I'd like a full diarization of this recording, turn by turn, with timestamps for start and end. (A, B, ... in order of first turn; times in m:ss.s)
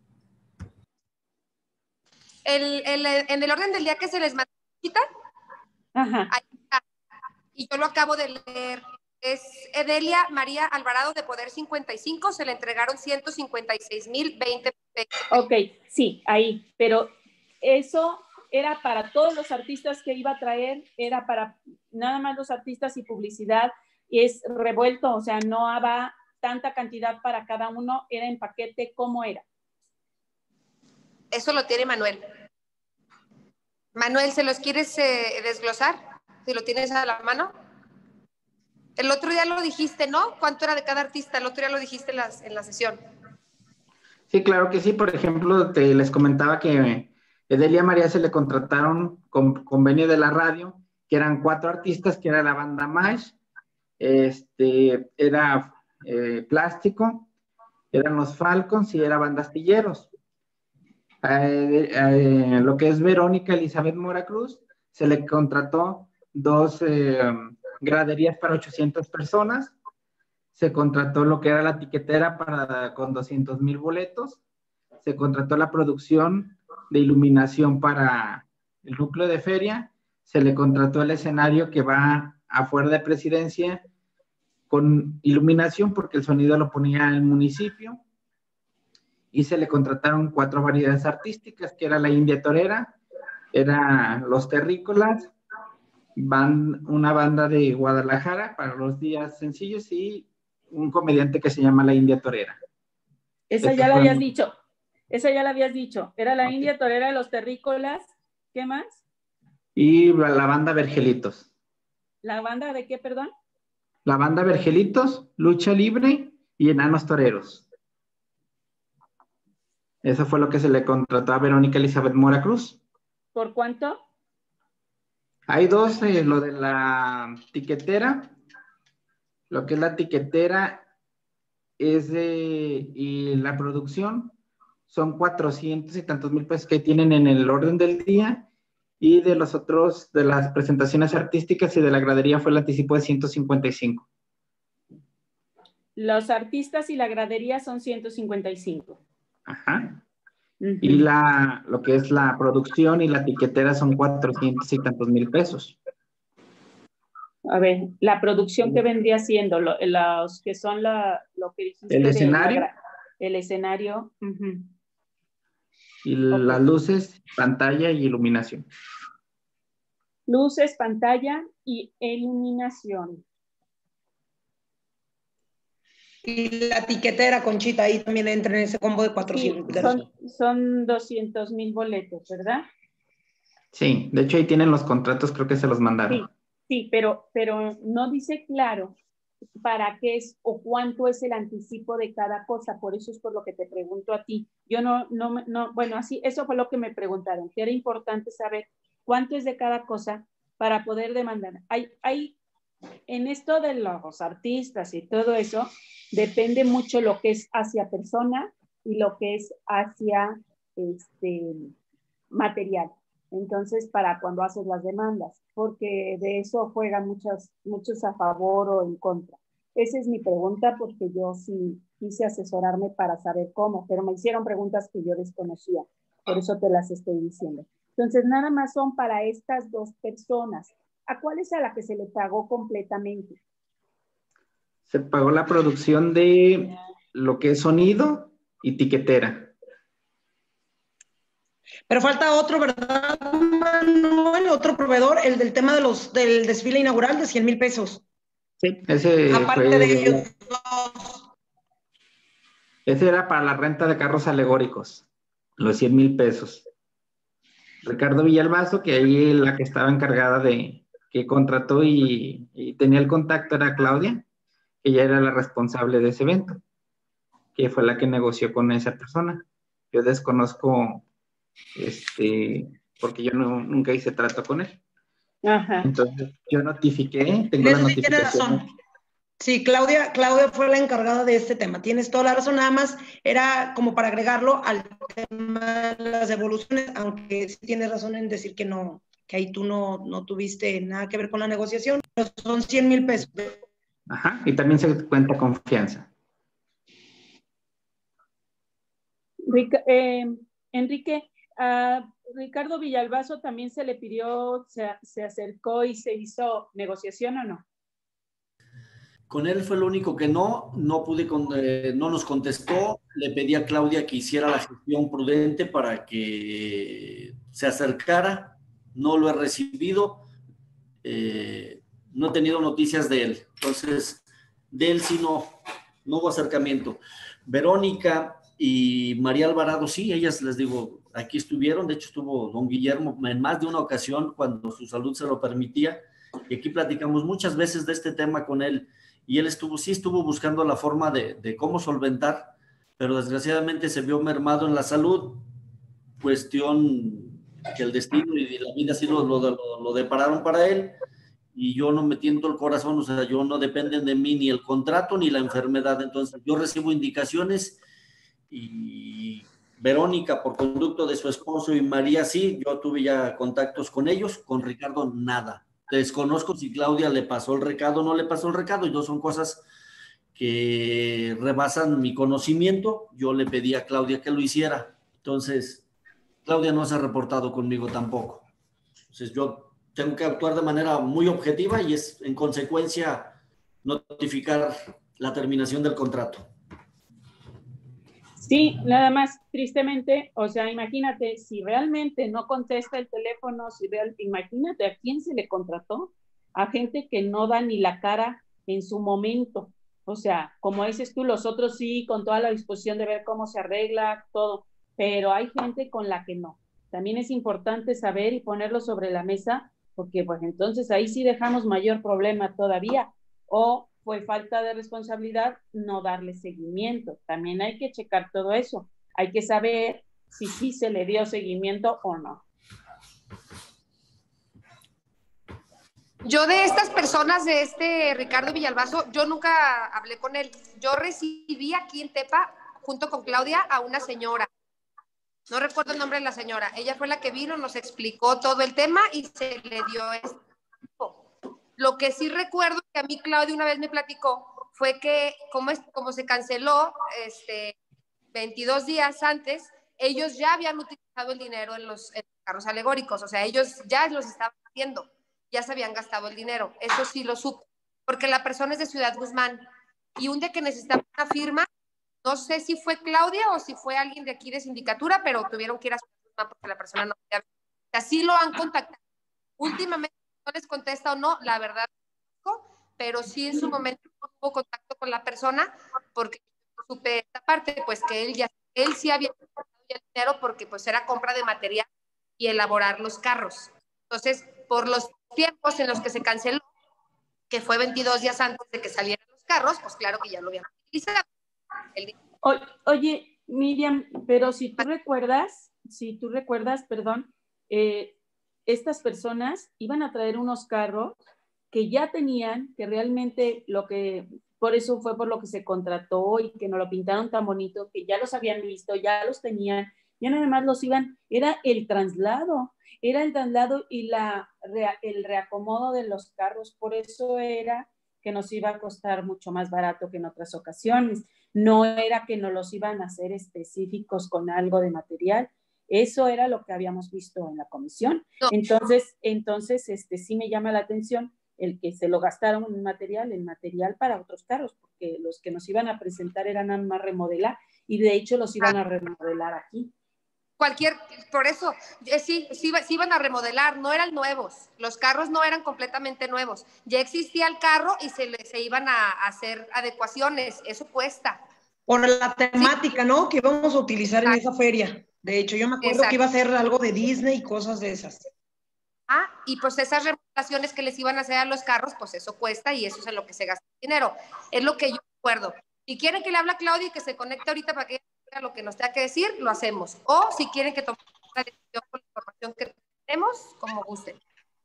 0:02.4-0:05.0 A
0:05.9-0:06.3 B
0:06.3-0:06.8 A
0:07.6-0:15.1 A
0:15.3-0:17.1 B
0:17.6-0:29.4 B
0:31.3-0:32.2 A
0:33.9-0:37.5 A
0:39.0-0:43.0 A
0:44.3-0:53.4 C
0:54.0-0:57.3 C
0:57.9-1:00.1 C
1:01.2-1:09.7 C
1:10.6-1:14.4 C
1:15.0-1:23.8 C
1:24.7-1:28.0 C
1:29.3-1:33.0 C
1:33.5-1:35.3 C
1:36.2-1:42.6 C
1:43.5-1:44.5 B
1:43.6-1:44.2 C
1:45.1-1:49.0 B
1:49.8-1:51.4 C
1:52.2-1:53.3 B
1:54.0-1:57.6 C
2:00.0-2:02.8 C
2:03.3-2:04.0 B
2:05.5-2:08.3 C
2:09.5-2:10.8 C
2:11.8-2:14.3 C
2:14.9-2:18.5 C
2:19.0-2:24.0 C
2:26.0-2:29.0 B
2:29.5-2:30.0 C
2:30.6-2:31.0 B
2:30.8-2:35.8 C
2:37.4-2:44.7 B
2:41.9-2:42.7 C
2:46.0-2:48.7 C
2:46.3-2:46.6 B
2:50.3-2:53.2 B
2:56.2-3:00.0 D
2:59.3-3:02.6 B
3:03.7-3:06.2 C
3:06.1-3:08.9 B
3:09.6-3:22.4 B
3:23.1-3:31.7 B
3:32.3-3:53.4 B
3:54.9-3:59.5 C
4:01.9-4:08.0 D
4:08.6-4:10.3 C
4:09.3-4:11.2 D
4:12.8-4:15.0 C
4:15.6-4:16.7 C
4:17.8-4:24.2 C
4:24.8-4:26.6 C
4:27.5-4:31.0 C
4:31.7-4:34.8 C
4:35.4-4:35.9 B
4:35.8-4:38.6 C
4:37.6-4:38.6 D
4:39.4-4:53.6 D
4:54.1-4:56.1 C
4:59.5-5:07.6 B
5:09.3-5:20.2 E
5:21.0-5:45.4 E
5:46.2-5:51.0 E
5:51.5-5:57.8 E
5:58.5-6:09.6 E
6:10.3-6:15.8 E
6:16.4-6:18.4 E
6:19.1-6:26.4 E
6:28.4-7:02.4 B
7:06.2-7:14.5 A
7:15.5-7:20.4 A
7:21.8-7:27.7 A
7:28.3-7:39.6 A
7:40.2-7:41.7 A
7:42.2-7:49.0 A
7:49.6-7:51.9 A
7:52.4-7:59.3 A
7:59.9-8:01.8 A
8:02.4-8:06.7 A
8:07.5-8:11.2 A
8:12.4-8:18.2 B
8:18.7-8:21.2 B
8:21.7-8:59.9 B
9:00.6-9:11.4 A
9:11.9-9:18.2 D
9:15.8-9:16.2 A
9:19.1-9:34.2 A